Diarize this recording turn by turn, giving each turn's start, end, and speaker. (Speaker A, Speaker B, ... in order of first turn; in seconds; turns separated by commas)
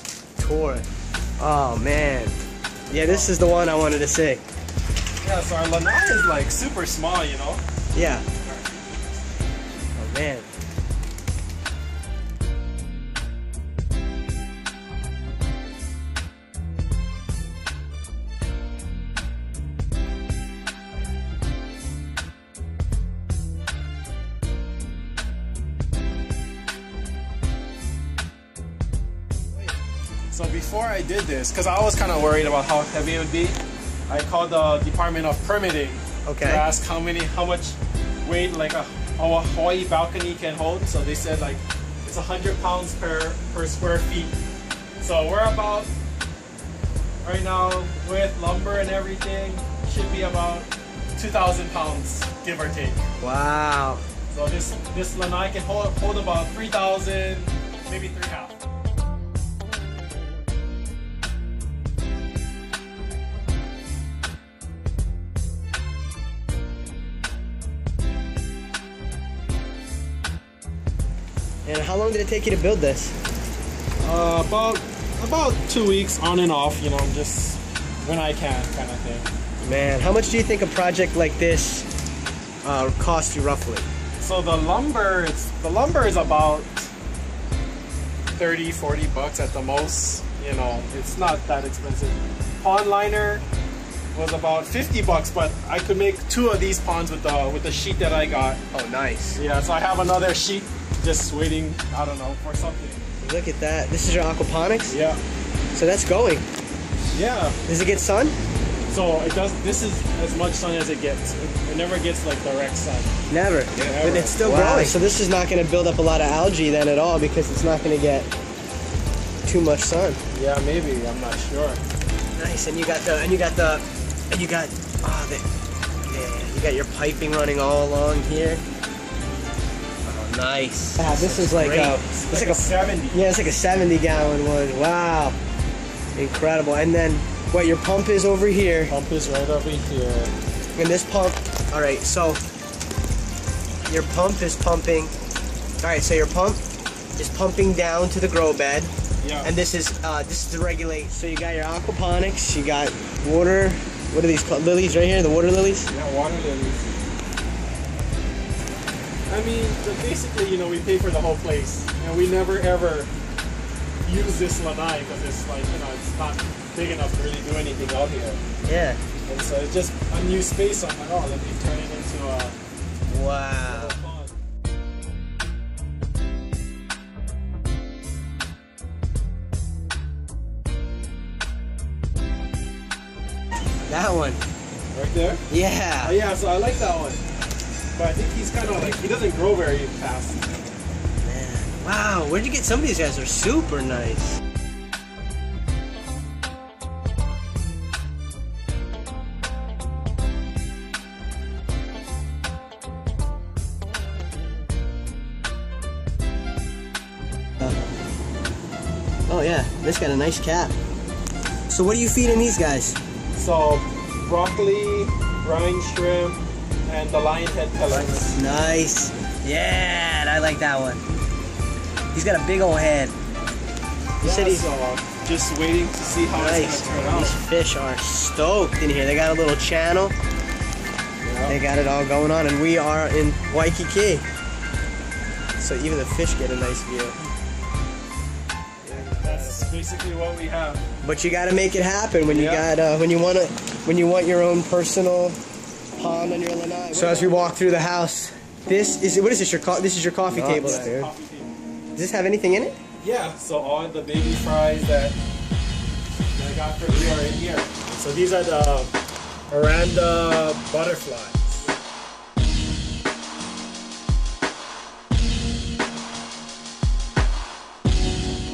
Speaker A: 0.4-0.9, Speaker A: 1.4-2.4, Speaker A: 2.9-4.4, Speaker B: 3.0-3.4, Speaker B: 5.2-7.6, Speaker A: 8.0-8.3, Speaker A: 10.0-10.5, Speaker B: 30.3-33.6, Speaker B: 34.1-44.3, Speaker A: 36.3-36.7, Speaker B: 45.0-45.9, Speaker B: 47.2-53.0, Speaker A: 53.2-54.0, Speaker B: 54.3-58.6, Speaker A: 71.7-73.2, Speaker B: 74.0-79.3, Speaker A: 79.6-81.9, Speaker A: 82.6-83.9, Speaker B: 84.2-86.9, Speaker B: 88.3-93.4, Speaker B: 94.1-98.7, Speaker A: 98.7-99.4, Speaker B: 99.3-103.0, Speaker A: 103.2-105.0, Speaker B: 104.9-105.2, Speaker A: 105.7-106.5, Speaker B: 107.1-107.6, Speaker A: 107.7-108.4, Speaker B: 108.9-113.1, Speaker A: 113.3-118.3, Speaker B: 113.7-115.0, Speaker A: 119.5-120.2, Speaker B: 120.3-121.8, Speaker A: 122.4-125.5, Speaker A: 126.1-128.6, Speaker A: 130.1-135.4, Speaker B: 131.0-133.3, Speaker A: 136.2-138.9, Speaker B: 138.9-140.3, Speaker A: 140.8-142.4, Speaker A: 143.9-145.1, Speaker A: 145.8-146.6, Speaker A: 147.2-155.9, Speaker B: 149.2-149.5, Speaker B: 155.9-156.9, Speaker B: 159.3-163.1, Speaker B: 164.1-168.4, Speaker A: 168.7-169.0, Speaker B: 169.3-172.6, Speaker A: 173.1-174.0, Speaker B: 173.6-174.3, Speaker A: 183.8-184.4, Speaker B: 184.9-185.4, Speaker A: 185.5-186.2, Speaker B: 186.0-187.2, Speaker B: 187.9-190.6, Speaker A: 191.2-194.4, Speaker A: 209.3-210.7, Speaker A: 211.7-213.0, Speaker B: 213.3-218.4, Speaker A: 217.9-221.1, Speaker A: 222.1-223.2, Speaker B: 224.2-227.4, Speaker A: 224.2-224.7, Speaker A: 226.2-230.2, Speaker B: 231.2-231.6, Speaker A: 231.5-234.2, Speaker A: 235.6-237.2, Speaker A: 238.8-239.8, Speaker B: 238.9-240.8, Speaker A: 241.0-245.4, Speaker B: 242.2-242.7, Speaker A: 246.0-251.1, Speaker B: 246.9-247.6, Speaker B: 250.3-251.5, Speaker A: 251.9-252.8, Speaker B: 253.0-255.2, Speaker B: 256.3-258.9, Speaker B: 259.5-261.7